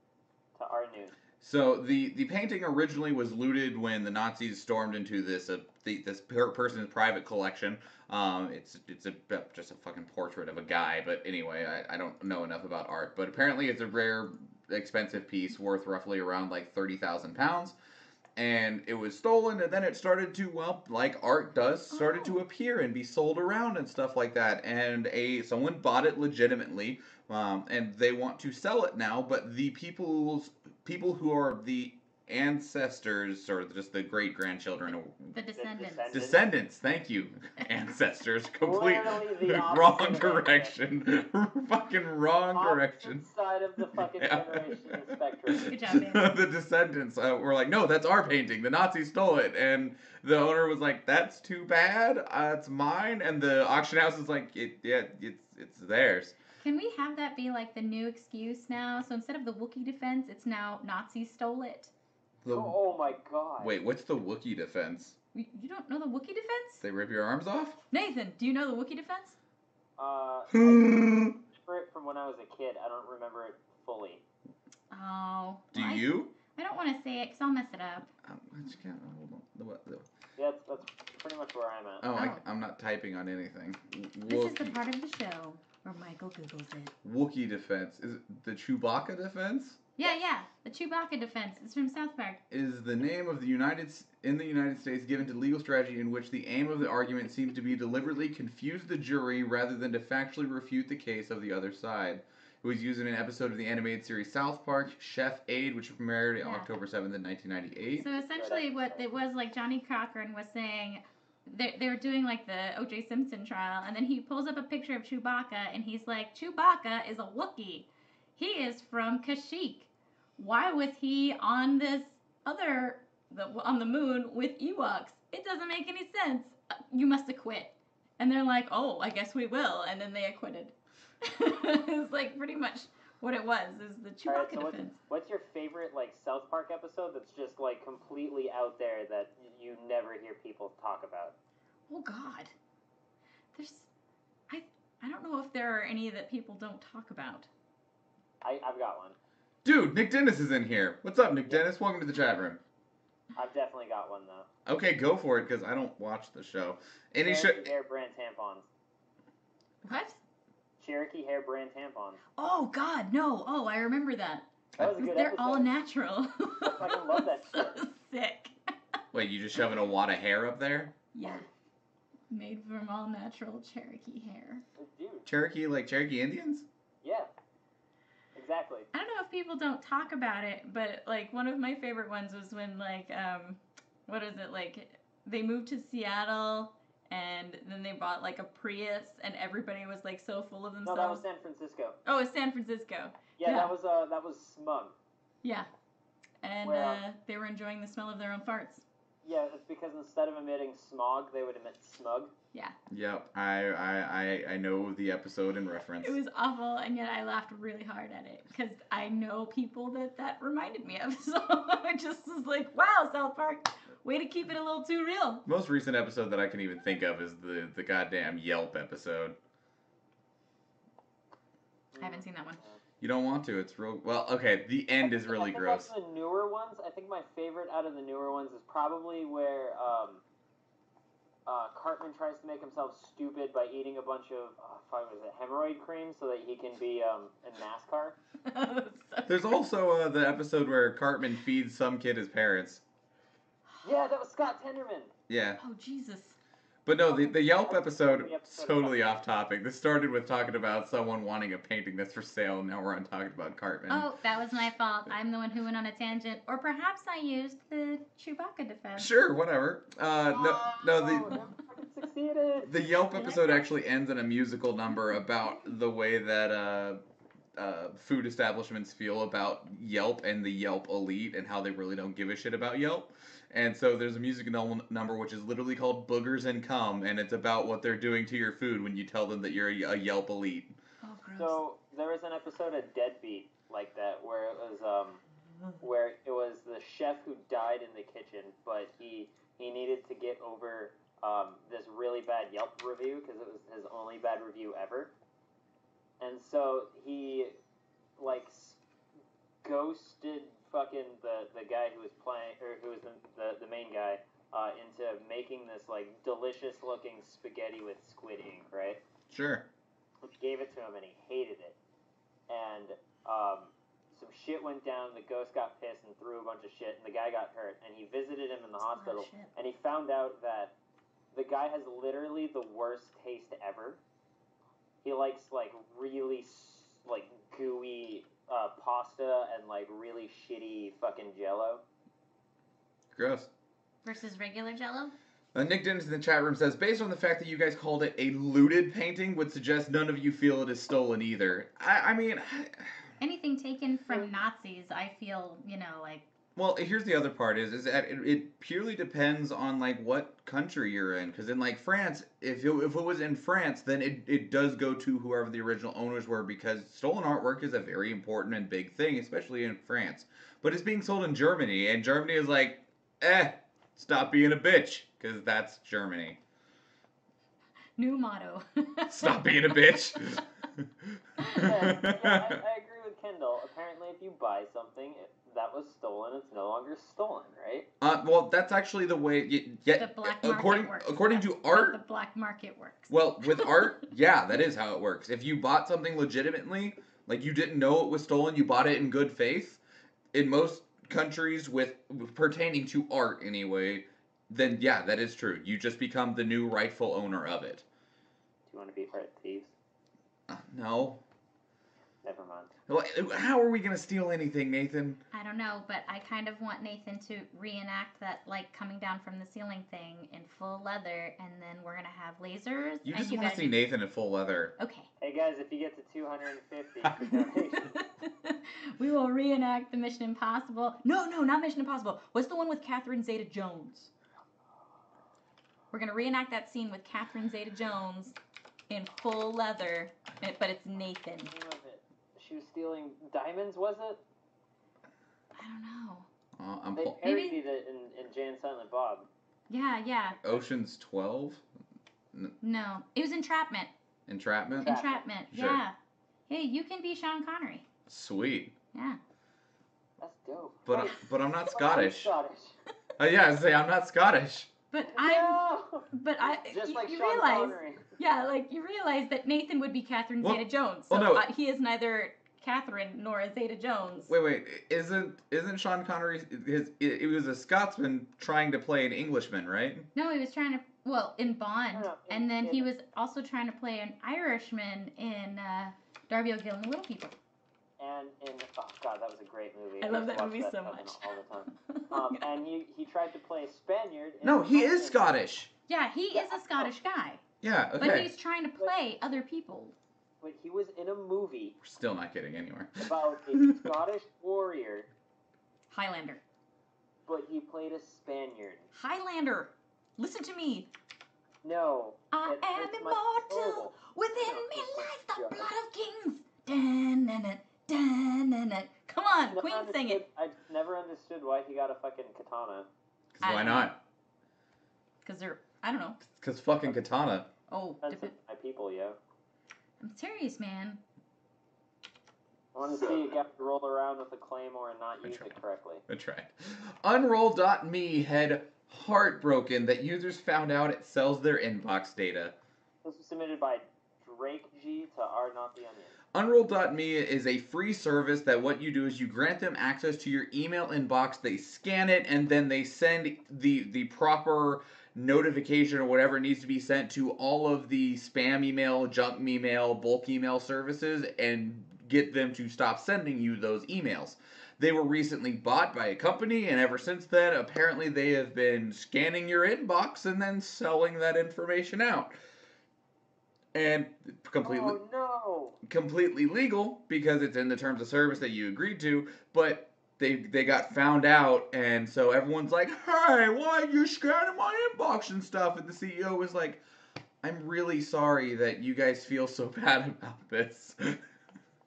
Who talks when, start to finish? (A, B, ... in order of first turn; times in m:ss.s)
0:00.6-0:01.2 A
0:01.4-0:17.8 B
0:18.4-0:35.3 B
0:21.9-0:22.4 C
0:35.3-0:36.2 C
0:35.6-0:36.4 A
0:36.1-0:43.3 B
0:38.6-0:40.8 A
0:42.5-0:45.8 A
0:44.0-0:56.4 B
0:45.5-0:46.3 C
0:56.6-1:01.9 C
1:02.4-1:02.8 B
1:02.5-1:03.8 A
1:03.6-1:05.2 B
1:05.3-1:06.8 C
1:06.8-1:07.8 B
1:07.9-1:09.4 C
1:10.0-1:14.2 A
1:10.5-1:11.4 B
1:14.9-1:18.1 C
1:15.7-1:16.3 B
1:18.2-1:20.1 B
1:20.4-1:22.0 A
1:22.0-1:24.8 B
1:22.2-1:22.4 C
1:24.3-1:26.9 C
1:27.0-1:29.8 B
1:30.0-1:32.4 C
1:32.5-1:48.0 B
1:46.4-1:46.7 C
1:48.0-2:15.0 C
1:48.0-1:49.0 A
2:14.3-2:21.4 A
2:21.9-2:22.5 C
2:23.5-2:23.9 C
2:24.5-2:27.5 C
2:28.4-2:29.2 A
2:29.6-2:32.6 B
2:33.4-2:34.5 A
2:34.7-2:37.7 B
2:37.2-2:38.7 A
2:39.8-2:40.2 C
2:40.8-2:42.2 A
2:42.4-2:48.6 C
2:44.8-2:45.7 A
2:46.6-2:47.8 A
2:49.1-2:50.9 B
2:51.1-2:51.4 C
2:52.3-2:54.6 C
2:54.8-2:55.3 A
2:55.3-2:56.6 B
2:57.0-2:57.3 A
2:58.4-2:58.9 A
2:58.9-3:11.2 C
3:10.8-3:12.0 A
3:12.0-3:13.7 C
3:13.4-3:15.0 A
3:15.4-3:15.7 C
3:16.4-3:18.8 C
3:16.6-3:17.0 A
3:19.2-3:22.3 A
3:22.9-3:26.2 B
3:26.0-3:35.4 C
3:35.5-3:39.4 B
3:41.9-3:42.8 A
3:42.0-3:42.6 C
3:43.0-3:45.9 B
3:45.0-3:50.2 A
3:51.5-3:58.2 A
3:58.5-3:59.4 C
3:59.3-4:02.8 B
4:03.8-4:05.1 A
4:05.3-4:05.6 B
4:05.6-4:06.4 C
4:06.9-4:14.1 B
4:07.1-4:09.2 A
4:13.9-4:19.1 C
4:19.0-4:21.4 B
4:20.3-4:22.7 A
4:22.6-4:27.0 B
4:23.1-4:23.7 C
4:27.6-4:40.8 B
4:41.0-4:41.6 C
4:41.4-4:45.2 A
4:45.8-4:55.1 A
4:56.2-4:57.6 A
4:58.2-4:58.8 A
4:59.6-5:09.0 A
5:09.3-5:09.6 B
5:10.2-5:11.8 A
5:12.5-5:20.7 A
5:18.9-5:19.5 C
5:21.3-5:24.0 A
5:25.0-5:31.8 A
5:33.1-5:33.5 B
5:34.0-5:35.2 C
5:35.5-5:43.1 B
5:43.2-5:46.2 C
5:46.6-6:06.4 B
6:08.0-6:10.4 C
6:09.1-6:12.6 B
6:11.4-6:11.7 C
6:11.5-6:17.9 A
6:18.0-6:22.0 B
6:20.0-6:23.9 C
6:23.1-6:29.8 B
6:30.3-6:37.8 B
6:38.7-6:39.7 A
6:40.5-6:41.2 B
6:42.2-6:42.7 A
6:42.9-6:45.2 B
6:45.3-6:53.8 C
6:53.0-6:54.7 B
6:54.8-6:55.1 C
6:55.2-6:58.0 A
6:57.3-7:04.1 C
7:05.9-7:08.4 C
7:08.9-7:11.5 C
7:11.5-7:14.2 A
7:15.5-7:16.3 C
7:16.6-7:17.2 B
7:17.0-7:19.3 A
7:17.2-7:17.6 C
7:19.7-7:20.4 C
7:20.4-7:21.6 B
7:22.6-7:23.9 C
7:24.3-7:24.9 B
7:24.8-7:25.9 C
7:24.8-7:25.2 A
7:25.5-7:25.8 B
7:26.5-7:27.8 C
7:28.1-7:28.7 B
7:28.9-7:29.2 C
7:30.2-7:32.8 A
7:30.9-7:32.3 B
7:33.2-7:34.7 B
7:34.9-7:35.6 C
7:35.1-7:38.1 A
7:36.1-7:44.3 C
7:40.4-7:41.4 B
7:44.3-7:50.1 B
7:50.2-7:57.4 C
7:51.9-7:52.9 A
7:58.0-8:05.3 A
8:00.0-8:02.4 C
8:04.4-8:05.7 B
8:05.9-8:07.4 C
8:06.3-8:06.9 A
8:07.6-8:08.3 B
8:08.0-8:10.0 C
8:10.4-8:11.8 A
8:11.8-8:13.1 B
8:13.0-8:15.1 A
8:15.9-8:16.4 C
8:17.3-8:18.9 A
8:19.0-8:20.9 C
8:21.6-8:25.7 A
8:22.3-8:30.2 C
8:29.5-8:32.9 A
8:33.3-8:34.0 B
8:33.4-8:33.9 C
8:35.2-8:36.2 C
8:36.2-8:37.5 B
8:37.7-8:38.3 C
8:38.0-8:39.2 A
8:40.0-8:41.0 C
8:42.8-8:46.0 A
8:45.2-8:45.5 B
8:46.1-8:52.5 B
8:53.0-8:56.2 A
8:56.3-9:22.4 B
9:23.7-9:25.0 B
9:24.6-9:25.8 A
9:25.8-9:36.8 B
9:37.4-9:41.2 B